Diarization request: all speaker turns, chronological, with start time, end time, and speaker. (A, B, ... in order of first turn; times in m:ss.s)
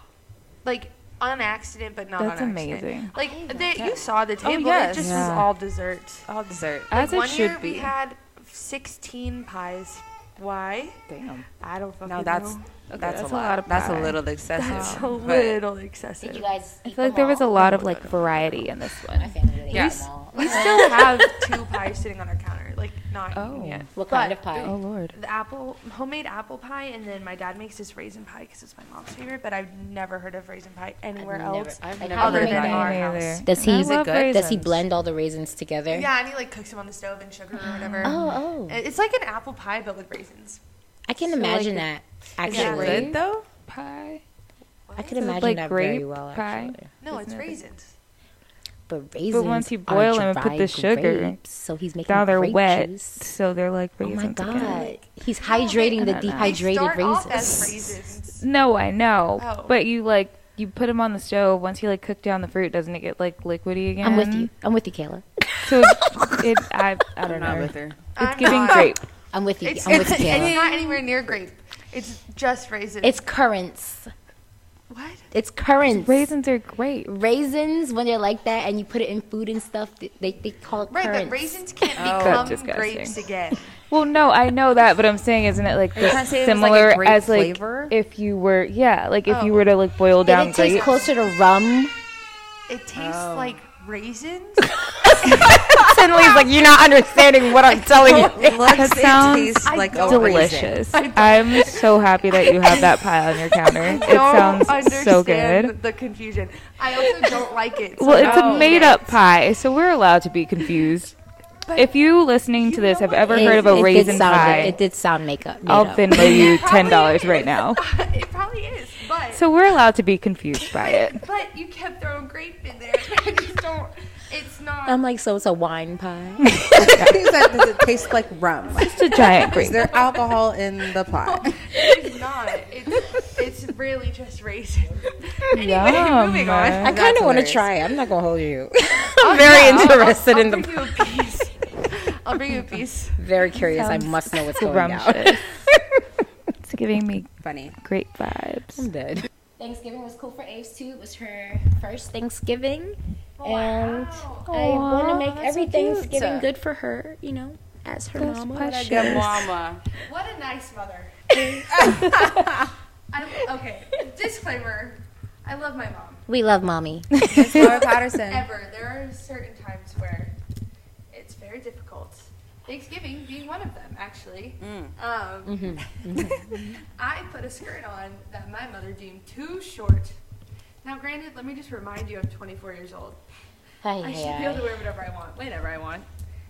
0:00.6-0:06.2 A
0:02.2-0:03.1 B
0:03.2-0:03.9 C
0:03.8-0:05.4 D
0:04.9-0:05.5 B
0:06.3-0:06.9 D
0:06.9-0:07.9 B
0:06.9-0:11.0 A
0:11.1-0:11.4 B
0:11.6-0:12.6 A
0:12.0-0:15.6 D
0:12.9-0:15.1 B
0:14.6-0:16.5 A
0:16.2-0:18.0 C
0:16.9-0:19.3 B
0:17.5-0:17.8 A
0:19.1-0:21.2 C
0:19.7-0:20.0 D
0:19.7-0:33.4 A
0:23.3-0:23.8 B
0:23.9-0:24.7 C
0:24.6-0:25.1 B
0:31.2-0:36.1 C
0:31.8-0:33.0 D
0:32.2-0:34.8 B
0:33.7-0:34.4 D
0:35.9-0:40.6 A
0:37.7-0:38.3 B
0:38.0-0:38.8 C
0:41.1-0:43.1 C
0:41.2-0:41.8 B
0:42.4-0:44.2 B
0:42.5-0:43.0 A
0:42.5-0:43.4 D
0:44.9-0:45.4 A
0:45.0-0:46.9 C
0:45.2-0:47.6 B
0:47.0-0:47.9 A
0:48.9-0:53.3 C
0:49.3-0:51.4 B
0:52.1-0:54.8 B
0:54.0-0:57.9 C
0:54.5-0:58.4 A
0:56.0-0:56.6 B
0:58.4-1:04.5 B
0:59.4-0:59.7 A
1:04.0-1:06.4 C
1:05.6-1:09.0 B
1:07.2-1:08.8 D
1:08.2-1:09.0 A
1:09.3-1:10.6 C
1:09.6-1:13.2 A
1:09.9-1:11.3 D
1:13.0-1:14.1 C
1:14.9-1:15.2 A
1:15.3-1:16.3 C
1:16.0-1:17.1 B
1:17.1-1:21.6 C
1:20.9-1:23.7 A
1:22.0-1:22.6 D
1:22.1-1:23.2 B
1:23.9-1:30.9 B
1:25.9-1:27.9 D
1:29.3-1:29.7 A
1:30.2-1:31.9 C
1:30.5-1:31.1 A
1:32.7-1:34.8 A
1:32.9-1:33.6 D
1:35.2-1:38.9 C
1:37.9-1:40.8 D
1:38.7-1:45.7 B
1:39.6-1:42.0 A
1:42.6-1:42.9 A
1:43.7-1:49.2 A
1:48.0-1:51.1 B
1:48.1-1:48.9 D
1:51.7-1:54.8 B
1:52.6-1:54.8 A
1:53.3-1:56.5 C
1:55.6-1:57.8 B
1:56.1-1:59.4 A
1:59.3-2:01.2 B
2:00.7-2:05.0 A
2:04.8-2:06.6 C
2:06.5-2:07.2 B
2:06.7-2:11.6 D
2:08.8-2:09.9 B
2:09.2-2:10.2 A
2:11.2-2:16.0 A
2:15.5-2:16.9 B
2:15.6-2:17.7 D
2:16.8-2:21.0 C
2:19.2-2:23.2 A
2:23.2-2:26.0 C
2:23.6-2:25.5 B
2:26.6-2:28.8 B
2:27.4-2:27.8 D
2:28.8-2:39.3 C
2:33.4-2:34.5 A
2:34.5-2:35.9 B
2:35.9-2:36.5 D
2:38.2-2:39.4 B
2:38.8-2:39.8 D
2:40.0-2:41.2 A
2:41.4-2:42.5 C
2:41.7-2:42.6 D
2:43.1-2:46.2 A
2:46.3-2:47.3 C
2:47.2-2:47.6 B
2:47.3-2:48.5 D
2:47.5-2:50.3 A
2:51.1-3:00.1 A
2:54.6-2:54.9 D
2:55.4-2:56.6 C
3:00.8-3:03.2 A
3:03.8-3:04.7 C
3:04.0-3:06.0 A